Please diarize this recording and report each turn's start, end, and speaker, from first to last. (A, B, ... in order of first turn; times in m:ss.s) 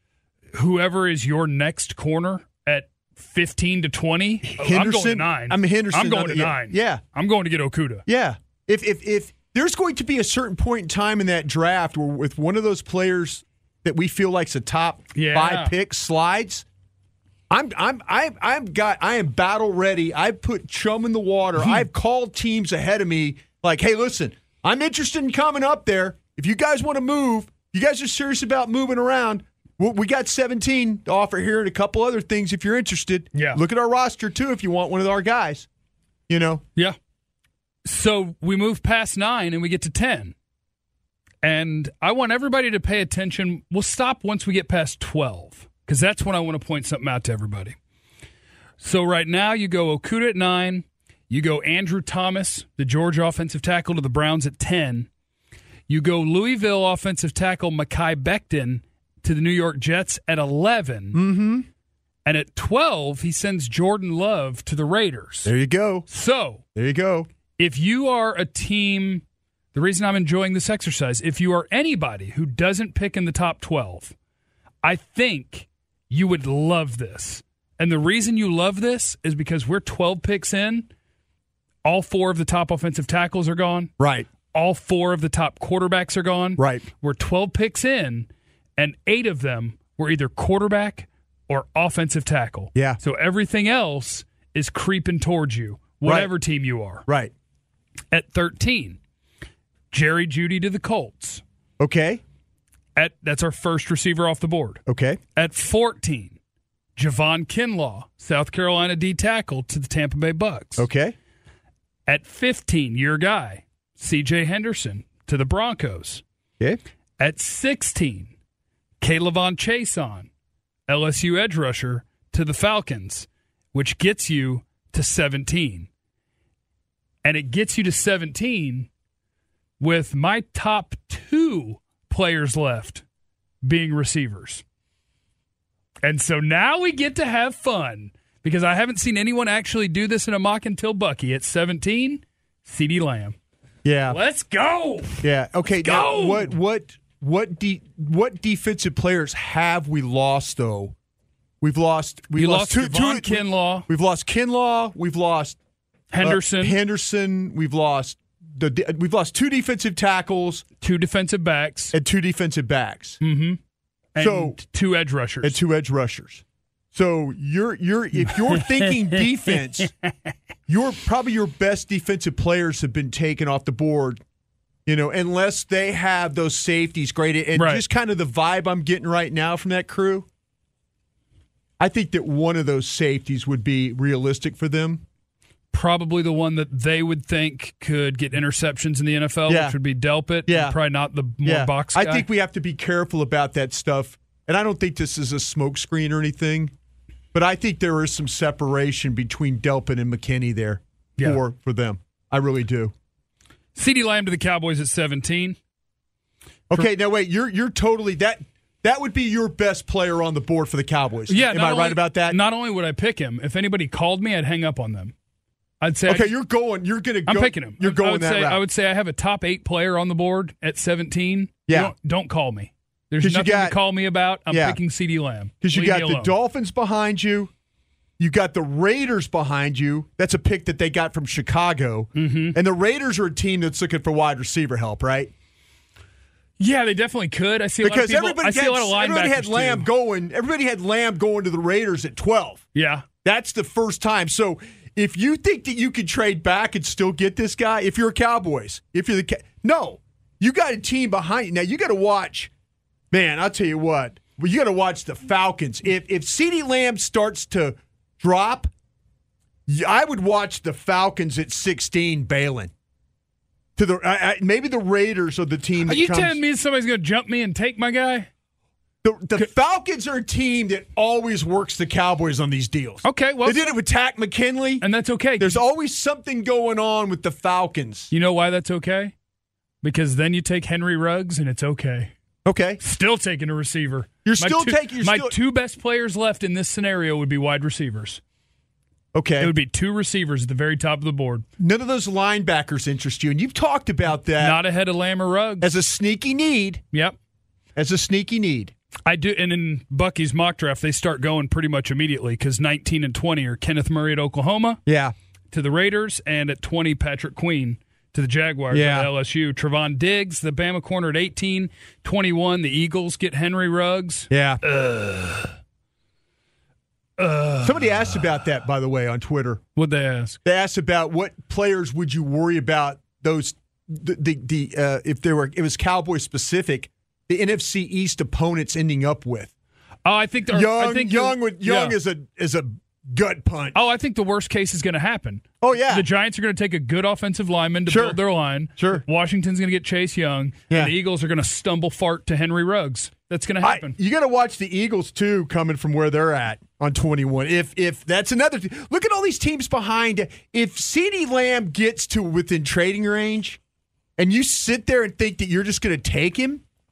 0:00.5-0:08.0 A
0:04.4-0:07.0 B
0:08.1-0:16.6 B
0:15.1-0:15.8 A
0:17.5-0:35.7 B
0:33.3-0:33.6 A
0:36.3-0:36.6 B
0:37.8-0:40.3 A
0:41.4-0:47.8 A
0:48.8-0:55.1 A
0:55.9-1:01.2 A
1:01.1-1:01.7 B
1:02.2-1:05.5 A
1:05.4-1:06.1 B
1:06.1-1:06.6 A
1:06.8-1:07.3 B
1:07.6-1:14.2 A
1:14.8-1:20.9 A
1:21.8-1:23.9 A
1:24.0-1:24.3 B
1:24.5-1:37.1 A
1:26.6-1:26.9 B
1:32.8-1:33.0 B
1:36.0-1:36.3 B
1:37.1-1:37.3 B
1:38.1-1:39.0 A
1:39.9-1:41.4 A
1:41.8-1:42.2 B
1:43.0-1:44.8 A
1:44.9-1:45.2 B
1:45.4-1:46.4 A
1:47.0-1:50.9 A
1:50.8-1:51.2 B
1:52.1-1:56.2 A
1:57.2-1:58.3 A
1:59.0-2:00.3 A
2:00.9-2:05.9 A
2:07.2-2:08.9 A
2:09.8-2:13.0 A
2:13.6-2:14.6 A
2:16.0-2:23.4 A
2:23.8-2:24.2 B
2:24.1-2:25.3 A
2:25.2-2:31.0 B
2:25.8-2:26.6 A
2:31.6-2:35.6 B
2:32.4-2:33.9 A
2:36.1-2:36.8 A
2:36.2-2:40.6 B
2:40.8-2:42.0 A
2:41.9-2:43.2 B
2:43.2-2:43.6 A
2:44.2-2:45.6 A
2:44.2-2:44.6 B
2:45.4-2:49.9 B
2:48.4-2:50.1 A
2:50.7-2:54.2 B
2:54.9-3:00.3 B
2:57.5-2:57.8 A
3:01.8-3:05.0 B
3:05.7-3:12.3 A
3:09.5-3:09.8 B
3:10.5-3:10.8 B
3:11.4-3:16.7 B
3:17.3-3:22.9 B
3:23.8-3:25.6 A
3:26.7-3:32.4 B
3:31.3-3:35.1 A
3:35.8-3:36.3 A
3:36.1-3:38.6 B
3:37.3-3:46.4 A
3:41.7-3:41.9 B
3:43.2-3:43.8 B
3:44.5-3:44.8 B
3:45.6-3:47.5 B
3:48.2-3:55.3 B
3:52.2-3:52.6 A
3:56.6-3:59.9 A
3:57.8-4:02.6 B
4:02.8-4:03.1 A
4:03.2-4:12.5 B
4:13.1-4:18.7 B
4:19.7-4:22.7 B
4:23.8-4:26.4 B
4:25.8-4:28.3 A
4:29.0-4:34.8 B
4:33.0-4:33.7 A
4:34.8-4:35.6 A
4:35.4-4:38.1 B
4:38.1-4:39.1 A
4:39.8-4:42.1 A
4:42.4-4:42.8 B
4:42.8-4:48.2 A
4:44.2-4:45.3 B
4:49.1-4:49.5 B
4:49.4-4:51.4 A
4:51.6-4:54.6 B
4:54.4-4:55.7 A
4:55.6-4:56.8 B
4:56.9-4:57.2 A
4:57.8-4:58.7 B
4:59.1-5:04.8 A
5:04.9-5:05.1 B
5:05.5-5:15.5 A
5:08.7-5:09.1 B
5:14.3-5:14.6 B
5:17.2-5:18.2 A
5:17.6-5:19.6 B
5:19.8-5:20.4 A
5:20.4-5:29.5 B
5:30.0-5:32.0 A
5:30.5-5:33.8 B
5:33.7-5:44.0 A
5:35.6-5:36.1 B
5:37.9-5:38.2 B
5:38.8-5:39.0 B
5:43.6-5:53.6 B
5:54.2-5:56.6 B